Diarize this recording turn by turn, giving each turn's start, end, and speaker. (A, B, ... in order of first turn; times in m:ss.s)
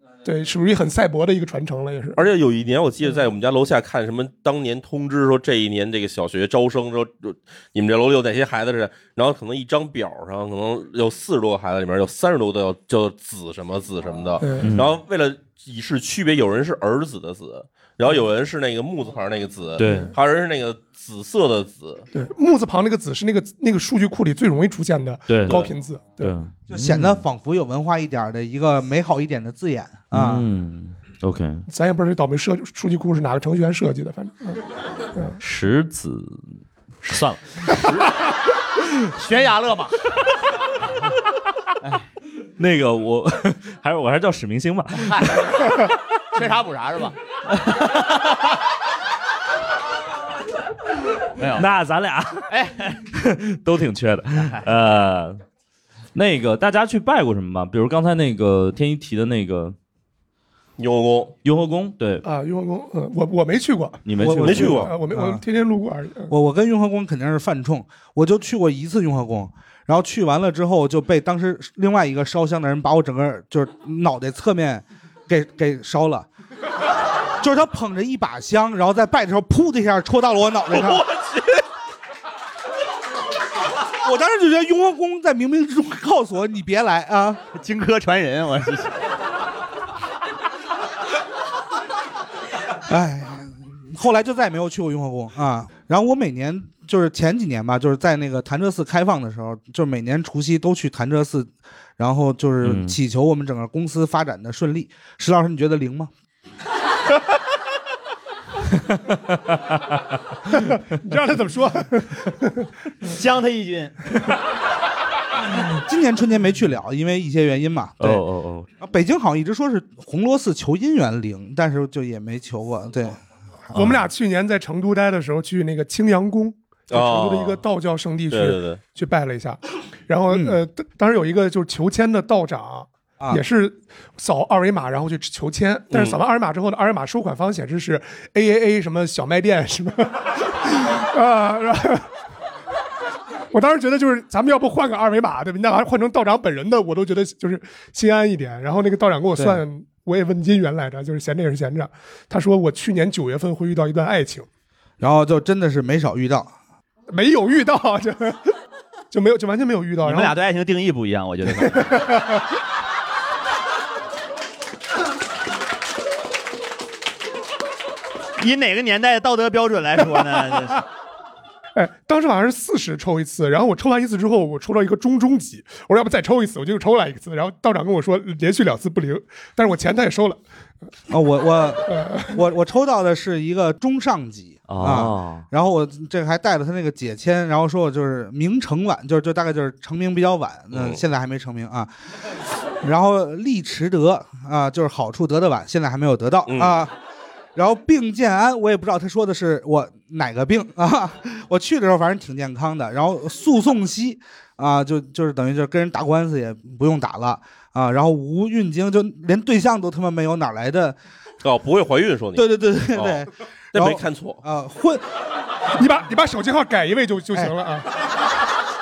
0:00.2-0:02.2 A
0:02.2-0:22.0 B
0:14.4-0:14.8 A
0:14.6-0:14.9 C
0:19.8-0:20.1 C
0:19.8-0:20.1 A
0:22.1-0:26.4 A
0:25.3-0:25.7 C
0:25.5-0:25.7 B
0:26.2-0:27.2 C
0:26.7-0:30.4 D
0:30.1-0:31.6 C
0:31.7-0:34.6 A
0:35.4-0:37.8 C
0:39.1-0:40.0 E
0:42.6-0:45.3 C
0:45.0-0:45.6 E
0:46.3-0:48.6 E
0:51.4-0:51.6 E
0:51.5-0:52.5 C
0:52.5-0:53.0 E
0:53.1-0:55.4 C
0:54.4-0:54.6 E
0:56.1-0:59.8 C
1:00.8-1:01.3 B
1:01.4-1:02.2 C
1:02.2-1:06.3 A
1:04.0-1:04.9 C
1:04.2-1:05.4 D
1:04.3-1:04.9 B
1:06.3-1:16.3 D
1:17.4-1:21.0 D
1:20.9-1:21.4 B
1:24.0-1:27.4 D
1:27.5-1:29.0 E
1:32.9-1:46.1 D
1:42.6-1:43.0 C
1:48.9-1:50.0 C
1:50.6-1:52.7 A
1:53.0-1:54.0 E
1:55.7-1:58.2 D
1:58.0-1:58.7 C
1:58.8-2:04.0 D
2:03.7-2:22.1 A
2:06.9-2:07.6 B
2:08.3-2:08.8 B
2:10.3-2:10.6 D
2:15.9-2:16.2 B
2:23.5-2:34.5 A
2:29.4-2:29.6 D
2:35.0-2:36.5 D
2:37.1-2:38.4 A
2:39.1-2:40.4 A
2:40.0-2:42.1 E
2:41.6-2:42.4 A
2:48.4-2:50.8 E
2:51.8-3:00.4 A
3:01.1-3:11.9 D
3:01.9-3:02.4 A
3:04.7-3:05.4 C
3:10.7-3:11.0 B
3:12.8-3:16.9 D
3:16.5-3:16.8 B
3:17.5-3:31.0 D
3:31.4-3:34.4 B
3:32.3-3:35.0 D
3:35.8-3:37.9 A